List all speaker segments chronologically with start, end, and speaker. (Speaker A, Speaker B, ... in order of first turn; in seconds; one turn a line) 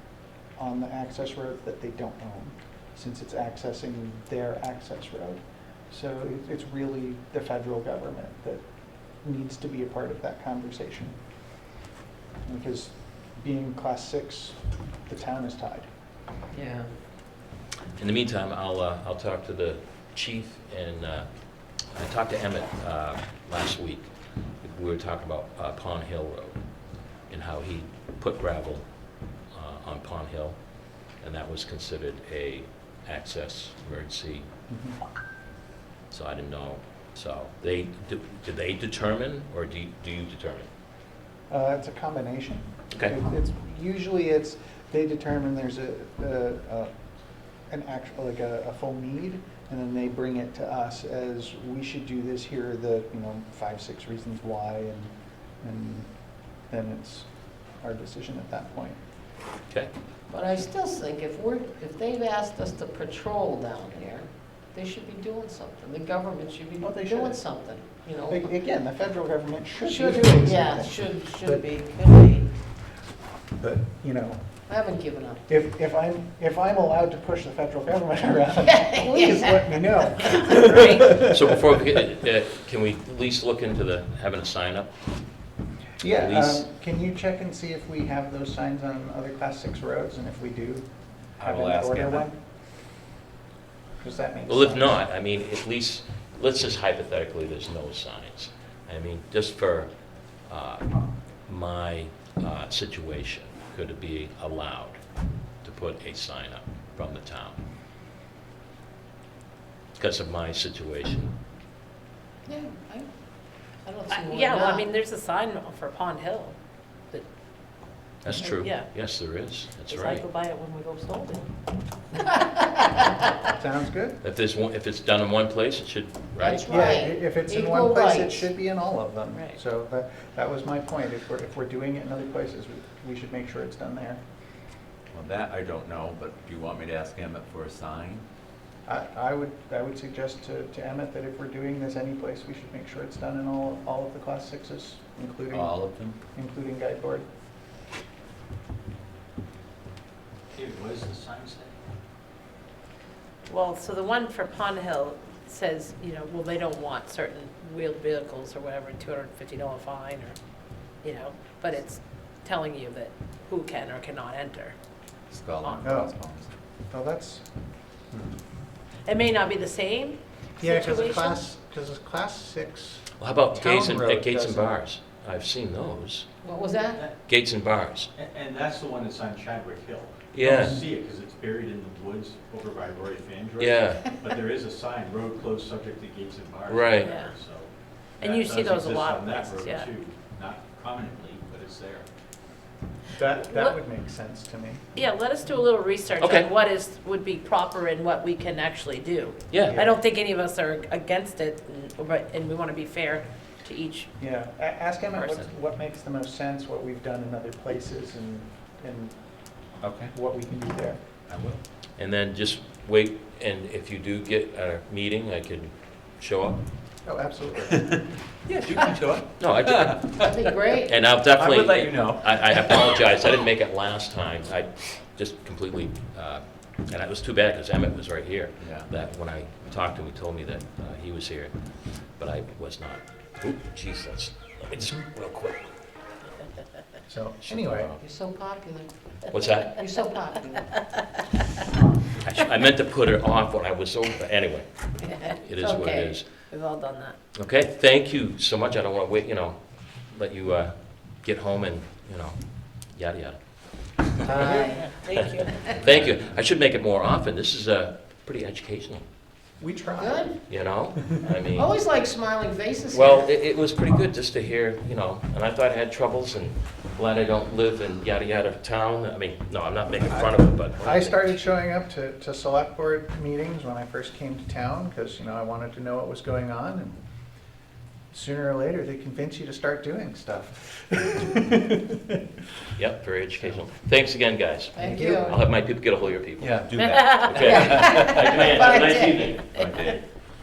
Speaker A: 0.6-8.6
Speaker A: 9.2-11.2
Speaker A: 12.4-15.9
Speaker B: 16.5-16.9
Speaker C: 17.9-26.6
Speaker C: 27.3-34.5
Speaker A: 34.7-35.0
Speaker C: 36.1-40.7
Speaker A: 41.5-46.9
Speaker A: 47.5-56.1
Speaker A: 56.6-59.0
Speaker B: 60.3-68.5
Speaker A: 66.8-67.4
Speaker A: 68.3-71.6
Speaker B: 69.8-72.5
Speaker A: 73.6-74.6
Speaker B: 74.7-75.4
Speaker A: 75.5-81.8
Speaker B: 78.6-80.3
Speaker D: 80.8-81.1
Speaker C: 81.1-84.9
Speaker A: 86.0-90.9
Speaker C: 86.1-86.7
Speaker A: 91.4-92.4
Speaker E: 91.4-92.3
Speaker A: 94.0-95.0
Speaker C: 94.5-107.6
Speaker C: 110.0-111.3
Speaker B: 112.5-114.8
Speaker D: 114.1-116.5
Speaker C: 118.2-120.2
Speaker D: 118.6-118.9
Speaker D: 119.9-121.5
Speaker A: 123.5-124.2
Speaker C: 124.2-126.9
Speaker B: 126.4-128.5
Speaker A: 126.7-134.2
Speaker D: 129.3-129.6
Speaker E: 135.1-138.2
Speaker A: 138.8-147.3
Speaker E: 145.5-146.2
Speaker E: 150.5-151.7
Speaker D: 153.5-160.4
Speaker D: 161.0-164.7
Speaker E: 165.3-166.5
Speaker A: 165.8-166.1
Speaker A: 166.9-167.4
Speaker D: 169.1-171.4
Speaker A: 170.6-174.8
Speaker C: 173.2-176.3
Speaker B: 176.4-177.0
Speaker C: 177.2-178.1
Speaker F: 178.3-180.2
Speaker C: 180.3-180.8
Speaker A: 180.4-180.8
Speaker F: 180.7-183.6
Speaker C: 183.6-184.1
Speaker E: 183.6-184.5
Speaker F: 184.2-187.7
Speaker E: 186.5-187.4
Speaker C: 186.7-187.2
Speaker D: 187.1-187.3
Speaker D: 188.2-189.9
Speaker F: 188.2-191.8
Speaker E: 188.4-192.0
Speaker A: 193.1-194.8
Speaker D: 193.5-193.8
Speaker D: 194.9-204.1
Speaker C: 196.2-196.5
Speaker C: 199.5-199.8
Speaker A: 199.7-199.9
Speaker A: 204.2-209.3
Speaker E: 209.8-210.1
Speaker A: 210.1-211.0
Speaker E: 211.3-211.6
Speaker C: 212.0-216.6
Speaker A: 217.0-217.9
Speaker E: 218.4-220.3
Speaker C: 219.4-220.3
Speaker B: 220.2-220.9
Speaker C: 220.8-235.7
Speaker E: 221.3-223.1
Speaker E: 228.6-228.9
Speaker A: 237.1-237.9
Speaker C: 237.4-238.0
Speaker B: 238.0-238.9
Speaker C: 239.3-240.1
Speaker B: 239.7-240.7
Speaker C: 242.2-246.5
Speaker D: 245.0-247.2
Speaker C: 247.3-259.0
Speaker A: 254.2-254.9
Speaker B: 254.3-254.9
Speaker D: 254.8-255.7
Speaker A: 259.6-260.8
Speaker B: 260.0-260.4
Speaker C: 260.5-261.7
Speaker B: 261.5-263.3
Speaker C: 262.9-271.4
Speaker A: 270.1-277.0
Speaker A: 278.1-281.5
Speaker C: 282.7-289.6
Speaker B: 284.7-285.4
Speaker A: 284.8-285.4
Speaker E: 286.4-290.0
Speaker B: 287.4-289.4